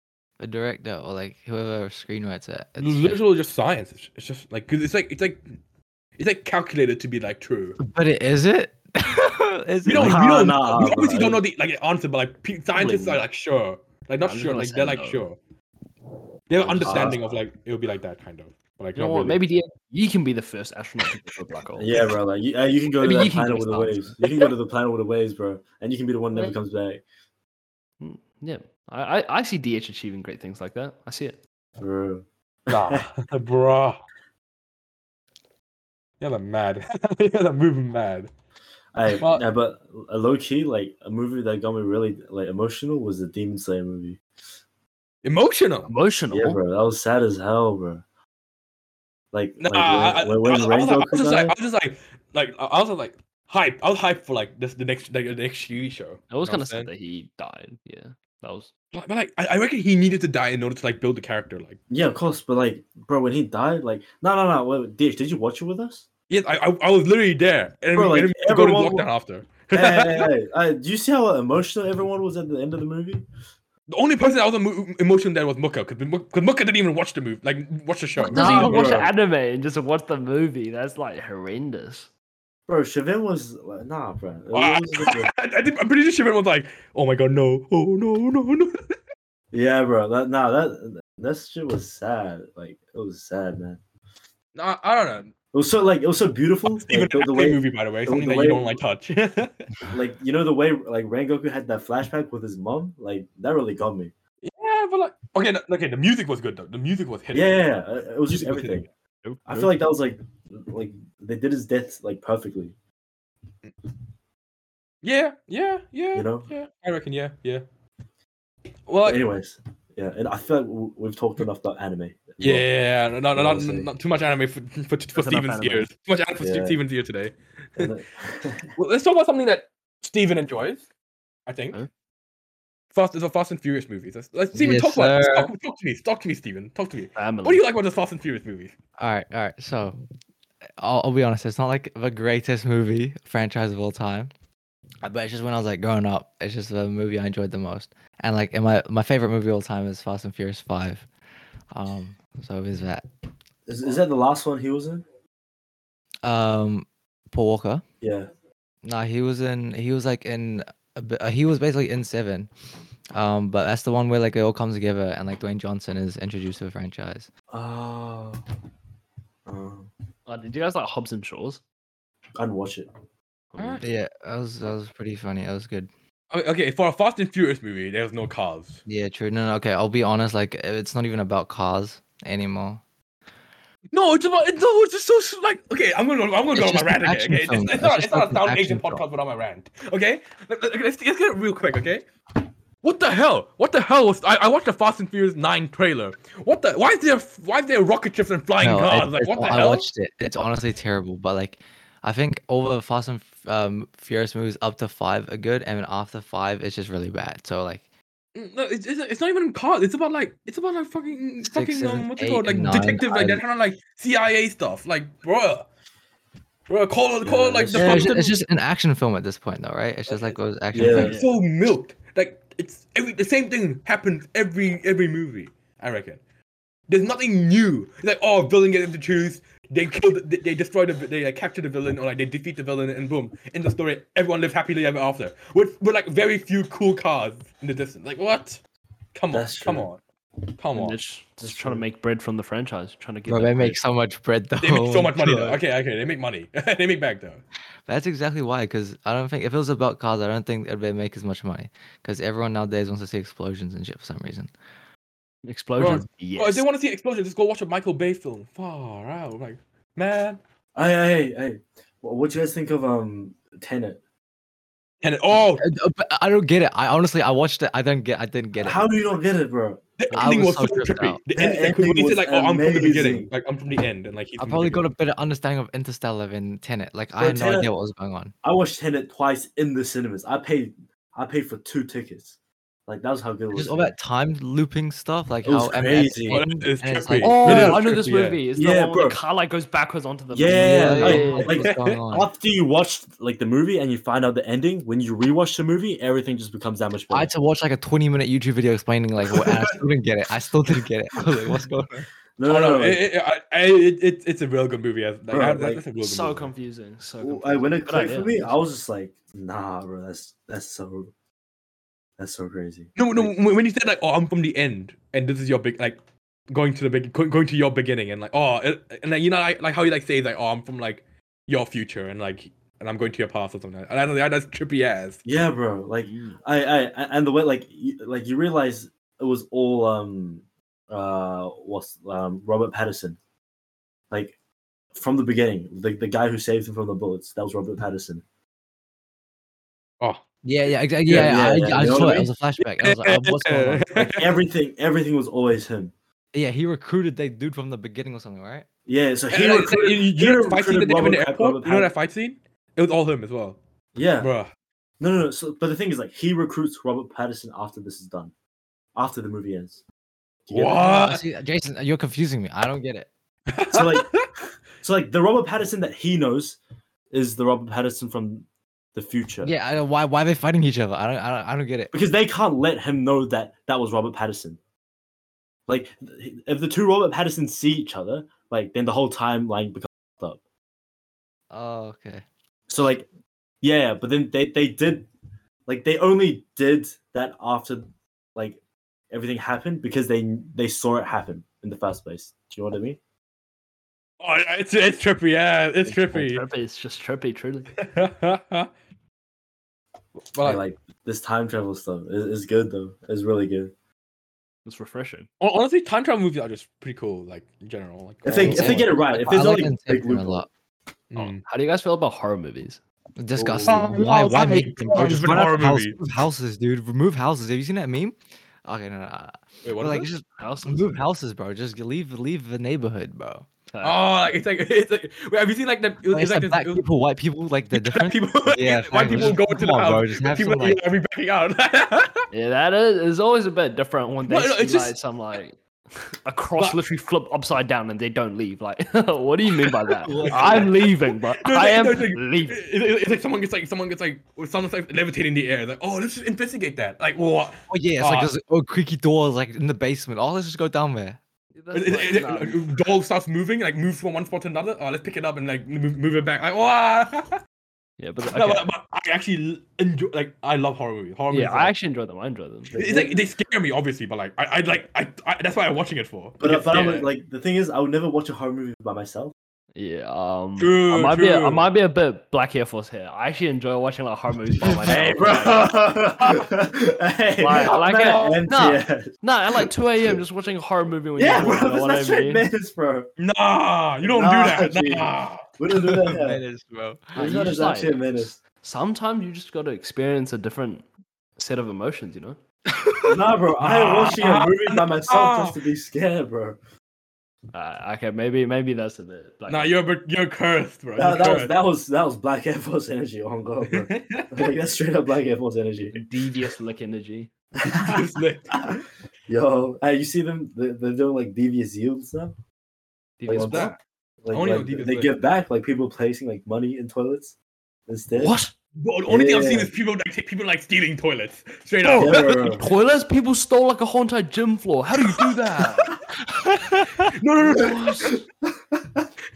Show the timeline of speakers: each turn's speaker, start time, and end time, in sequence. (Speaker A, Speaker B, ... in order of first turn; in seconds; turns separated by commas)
Speaker A: 0.4-3.2, Speaker B: 2.8-5.4, Speaker B: 6.2-7.8, Speaker A: 7.8-10.2, Speaker B: 9.8-15.4, Speaker C: 9.9-11.4, Speaker D: 12.8-13.2, Speaker D: 14.2-15.3, Speaker B: 16.5-19.4, Speaker D: 16.6-17.2, Speaker C: 16.7-17.2, Speaker D: 18.9-22.0, Speaker C: 21.8-27.0, Speaker D: 23.0-24.4, Speaker D: 28.0-31.4, Speaker C: 31.8-33.0, Speaker B: 32.7-34.0, Speaker B: 36.2-38.3, Speaker C: 38.9-44.2, Speaker B: 39.1-39.4, Speaker B: 45.2-45.9, Speaker D: 45.9-46.6, Speaker C: 46.3-48.0, Speaker C: 49.3-51.5, Speaker B: 49.6-56.9, Speaker D: 56.3-58.7, Speaker B: 58.9-61.8, Speaker C: 61.9-66.0, Speaker B: 66.3-70.3, Speaker C: 67.9-69.0, Speaker C: 69.7-73.2, Speaker B: 73.9-79.0, Speaker D: 78.2-82.1, Speaker C: 78.3-79.1, Speaker C: 82.7-85.3, Speaker B: 84.5-88.8, Speaker C: 89.5-93.8, Speaker B: 94.5-95.3, Speaker C: 95.5-98.8, Speaker B: 96.7-99.7, Speaker C: 99.9-104.1, Speaker B: 104.4-107.7, Speaker C: 107.3-108.9, Speaker B: 108.3-108.9, Speaker D: 109.2-109.7, Speaker C: 109.5-112.7, Speaker B: 115.0-117.6, Speaker C: 116.1-116.5, Speaker B: 118.9-119.2, Speaker C: 119.0-122.7, Speaker B: 122.4-127.9, Speaker C: 123.3-123.9, Speaker D: 125.1-125.9, Speaker C: 126.4-126.8, Speaker C: 127.8-128.7, Speaker B: 128.8-130.8, Speaker B: 131.5-131.8, Speaker B: 132.9-138.7, Speaker A: 134.5-135.5, Speaker D: 137.1-137.6, Speaker A: 139.0-139.9, Speaker A: 140.8-144.3, Speaker A: 145.0-151.1, Speaker A: 151.7-153.0, Speaker C: 153.7-155.0, Speaker A: 156.2-157.8, Speaker C: 158.0-158.3, Speaker A: 158.8-162.5, Speaker A: 163.1-167.3, Speaker C: 167.5-168.4, Speaker C: 169.4-169.9, Speaker D: 170.3-171.6, Speaker C: 172.3-172.9, Speaker D: 173.5-173.9, Speaker B: 173.6-173.8, Speaker A: 173.8-175.9, Speaker B: 176.3-178.8, Speaker A: 178.8-182.8, Speaker B: 183.9-192.1, Speaker A: 186.5-189.0, Speaker B: 192.8-199.8, Speaker A: 198.6-207.8, Speaker B: 208.3-215.7, Speaker A: 211.4-213.4, Speaker B: 216.7-218.4, Speaker C: 217.2-218.2, Speaker A: 217.7-221.1, Speaker B: 220.1-226.2, Speaker C: 220.7-221.2, Speaker D: 220.9-221.3, Speaker B: 226.9-238.6, Speaker B: 239.1-240.0, Speaker C: 239.3-239.9, Speaker B: 240.6-241.0, Speaker D: 240.7-243.8, Speaker C: 241.4-241.8, Speaker A: 243.3-245.6, Speaker B: 244.6-247.4, Speaker A: 247.9-254.5, Speaker D: 255.4-256.6, Speaker B: 255.8-260.4, Speaker C: 260.7-264.0, Speaker B: 265.0-265.6, Speaker A: 265.6-268.9, Speaker C: 268.6-269.9, Speaker B: 270.0-274.9, Speaker A: 270.1-271.2, Speaker C: 271.3-273.3, Speaker A: 274.4-278.3, Speaker C: 277.2-277.7, Speaker C: 278.4-282.4, Speaker C: 282.9-283.9, Speaker A: 283.5-287.8, Speaker C: 285.4-286.4, Speaker B: 286.3-288.4, Speaker D: 287.2-291.6, Speaker C: 287.4-287.8, Speaker C: 288.6-289.2, Speaker C: 290.3-297.3, Speaker A: 290.5-292.3, Speaker B: 291.5-292.0, Speaker A: 297.1-302.0, Speaker C: 302.4-303.0, Speaker B: 302.4-306.5, Speaker C: 305.3-305.8, Speaker D: 306.0-308.5, Speaker C: 307.2-311.1, Speaker C: 312.2-313.3, Speaker B: 312.9-316.0, Speaker B: 316.5-325.2, Speaker C: 325.2-333.2, Speaker D: 326.0-326.4, Speaker C: 334.1-334.4, Speaker C: 334.9-338.2, Speaker A: 340.4-344.0, Speaker C: 341.1-342.3, Speaker B: 342.6-344.3, Speaker C: 343.9-345.9, Speaker A: 346.3-348.6, Speaker C: 348.9-351.9, Speaker B: 349.3-353.6, Speaker C: 353.9-354.3, Speaker B: 354.2-354.5, Speaker C: 355.0-358.3, Speaker C: 358.9-359.8, Speaker C: 360.5-361.1, Speaker B: 360.5-361.2, Speaker A: 360.8-363.1, Speaker B: 363.5-364.3, Speaker C: 363.7-364.1, Speaker C: 364.8-366.6, Speaker C: 367.1-369.5, Speaker A: 369.4-371.9, Speaker C: 371.9-374.6, Speaker C: 375.7-380.4, Speaker A: 381.5-382.2, Speaker C: 382.7-383.1, Speaker C: 383.6-385.1, Speaker C: 385.6-388.6, Speaker C: 389.1-393.0, Speaker B: 394.2-396.4, Speaker D: 395.9-397.7, Speaker B: 397.8-398.7, Speaker B: 400.3-400.6, Speaker C: 400.4-403.7, Speaker D: 404.6-405.3, Speaker B: 405.4-408.9, Speaker C: 408.2-410.5, Speaker A: 408.4-410.5, Speaker B: 411.1-411.4, Speaker D: 411.1-412.8, Speaker A: 413.2-423.5, Speaker C: 413.3-414.1, Speaker B: 413.7-416.0, Speaker C: 414.9-415.5, Speaker B: 419.6-420.1, Speaker D: 420.4-421.0, Speaker D: 423.7-424.0, Speaker B: 423.8-426.8, Speaker A: 426.1-430.8, Speaker B: 427.7-432.2, Speaker D: 432.3-442.6, Speaker B: 434.2-434.9, Speaker A: 440.0-440.7, Speaker B: 440.2-448.3, Speaker A: 447.7-451.2, Speaker D: 451.5-452.6, Speaker B: 451.7-457.4, Speaker D: 458.0-458.7, Speaker B: 458.3-461.7, Speaker D: 461.3-462.7, Speaker C: 462.7-463.2, Speaker B: 462.7-467.1, Speaker C: 466.4-469.3, Speaker D: 469.7-475.7, Speaker B: 470.6-471.7, Speaker C: 474.8-479.1, Speaker D: 477.4-482.4, Speaker B: 477.5-478.5, Speaker C: 481.2-483.1, Speaker B: 483.2-485.4, Speaker C: 484.0-486.4, Speaker A: 486.0-487.4, Speaker C: 487.1-488.4, Speaker D: 487.1-490.9, Speaker D: 491.4-492.4, Speaker C: 493.0-496.6, Speaker B: 493.6-495.6, Speaker D: 497.5-499.7, Speaker B: 499.5-501.5, Speaker C: 501.0-506.0, Speaker B: 503.6-504.5, Speaker D: 505.9-507.3, Speaker C: 507.6-512.3, Speaker B: 507.7-508.6, Speaker D: 513.2-513.8, Speaker C: 513.3-517.3, Speaker B: 513.5-513.8, Speaker B: 514.3-515.1, Speaker C: 517.9-518.3, Speaker D: 518.1-518.5, Speaker B: 518.8-522.5, Speaker C: 519.1-519.7, Speaker D: 521.8-526.0, Speaker C: 522.0-522.6, Speaker B: 527.0-528.0, Speaker D: 527.4-528.2, Speaker C: 528.7-529.0